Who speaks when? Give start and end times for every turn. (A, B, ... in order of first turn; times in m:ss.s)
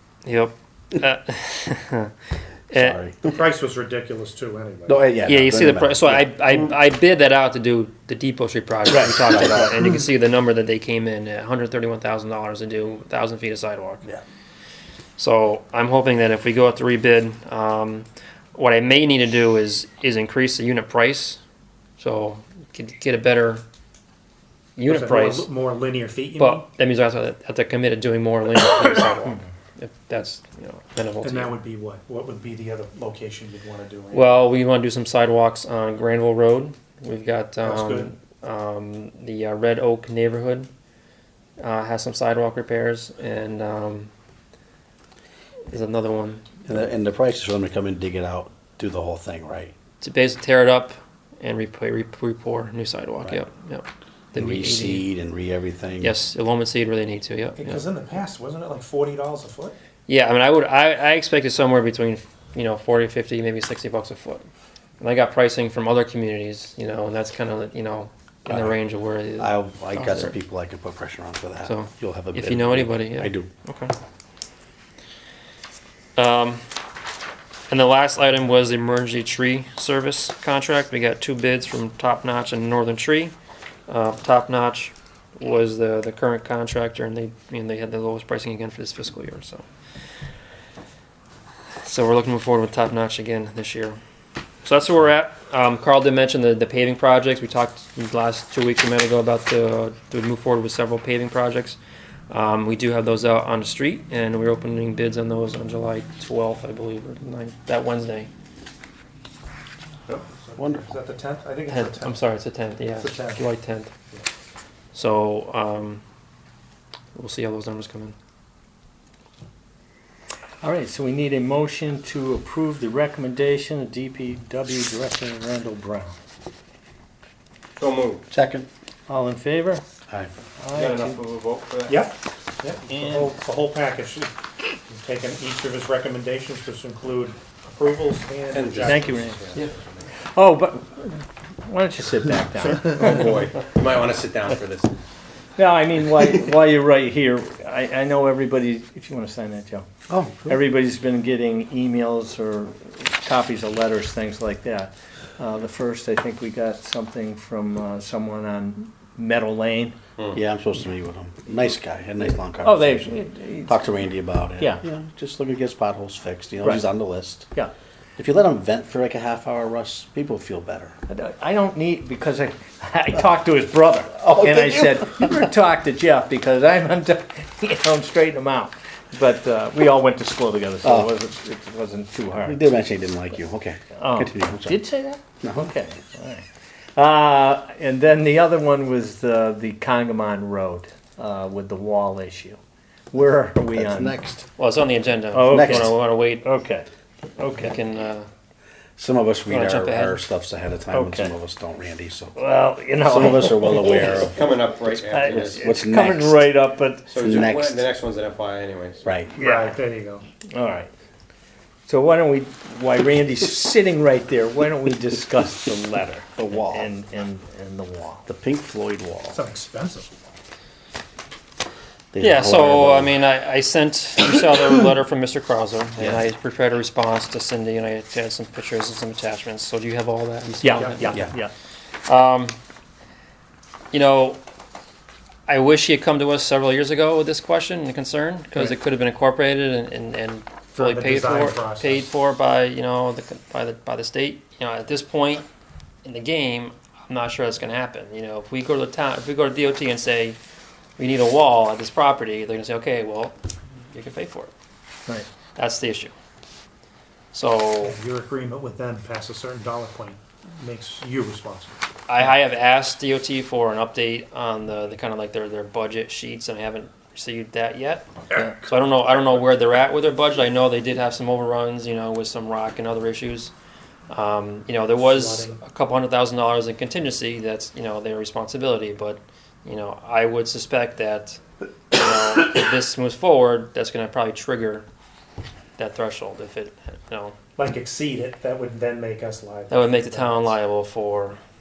0:00.2-0:02.1 A
0:02.7-0:03.0 A
0:02.7-0:03.3 B
0:03.2-0:05.0 C
0:04.9-0:06.7 B
0:05.2-0:14.1 A
0:08.9-0:09.8 D
0:09.3-0:09.8 B
0:15.2-0:21.4 A
0:22.0-0:23.6 A
0:24.8-0:25.5 A
0:24.9-0:26.7 C
0:26.4-0:31.5 A
0:31.2-0:34.3 C
0:34.1-0:40.7 A
0:37.6-0:38.1 C
0:41.6-0:44.1 A
0:45.7-0:46.4 A
0:46.7-0:49.7 B
0:50.0-0:55.1 A
0:54.3-0:56.1 B
0:56.0-0:57.8 A
0:57.5-0:59.8 C
1:00.1-1:04.5 A
1:05.0-1:10.4 A
1:08.5-1:08.8 B
1:09.4-1:13.5 B
1:11.6-1:13.9 A
1:16.2-1:16.6 A
1:17.7-1:23.4 A
1:23.9-1:29.6 A
1:31.8-1:34.0 A
1:34.6-1:41.8 A
1:42.3-1:48.3 A
1:50.3-1:52.3 C
1:50.6-1:50.9 B
1:51.7-1:53.9 A
1:53.0-1:53.5 C
1:54.9-1:56.0 A
1:57.2-1:58.2 A
2:00.6-2:06.2 D
2:07.8-2:08.2 E
2:08.3-2:08.7 B
2:09.1-2:09.8 D
2:10.6-2:11.2 D
2:10.7-2:12.1 E
2:11.9-2:14.3 C
2:12.9-2:13.2 D
2:14.9-2:19.4 C
2:18.5-2:20.0 E
2:18.8-2:19.5 D
2:20.3-2:23.3 D
2:22.6-2:24.9 E
2:25.6-2:29.9 D
2:30.1-2:30.5 B
2:30.5-2:40.0 D
2:40.3-2:47.5 B
2:42.6-2:43.8 D
2:44.6-2:44.8 D
2:46.6-2:46.9 D
2:48.2-2:51.0 B
2:51.1-3:02.6 D
2:54.2-2:55.2 B
3:00.8-3:01.1 B
3:02.4-3:04.8 B
3:04.0-3:06.4 D
3:05.4-3:05.7 B
3:07.0-3:12.6 D
3:13.1-3:14.2 D
3:13.7-3:14.4 B
3:14.6-3:16.4 A
3:15.3-3:16.8 D
3:15.5-3:15.9 B
3:17.4-3:17.7 D
3:17.6-3:18.3 A
3:19.0-3:22.4 B
3:19.5-3:20.3 A
3:20.9-3:21.4 D
3:22.4-3:24.3 D
3:23.0-3:24.4 B
3:23.8-3:25.7 E
3:25.0-3:27.1 D
3:25.3-3:26.4 B
3:27.1-3:29.1 E
3:27.2-3:27.8 B
3:29.0-3:29.3 B
3:29.4-3:30.2 C
3:29.4-3:29.8 D
3:30.5-3:30.9 D
3:31.9-3:38.2 D
3:36.4-3:36.9 B
3:38.3-3:39.4 B
3:39.3-3:40.1 C
3:42.1-3:43.2 B
3:42.2-3:51.2 A
3:46.0-3:46.2 B
3:50.6-3:51.5 D
3:50.6-3:51.0 C
3:52.0-3:52.6 A
3:53.9-3:54.4 A
3:55.5-4:05.5 A
4:00.8-4:02.1 C
4:06.0-4:10.4 A
4:11.0-4:13.4 A
4:13.9-4:14.5 A
4:15.6-4:16.1 A
4:17.3-4:18.0 A
4:17.8-4:21.8 C
4:22.1-4:33.5 A
4:34.1-4:41.4 A
4:34.9-4:35.6 C
4:41.9-4:44.9 A
4:45.8-4:47.4 A
4:47.6-4:50.6 C
4:49.7-4:51.4 A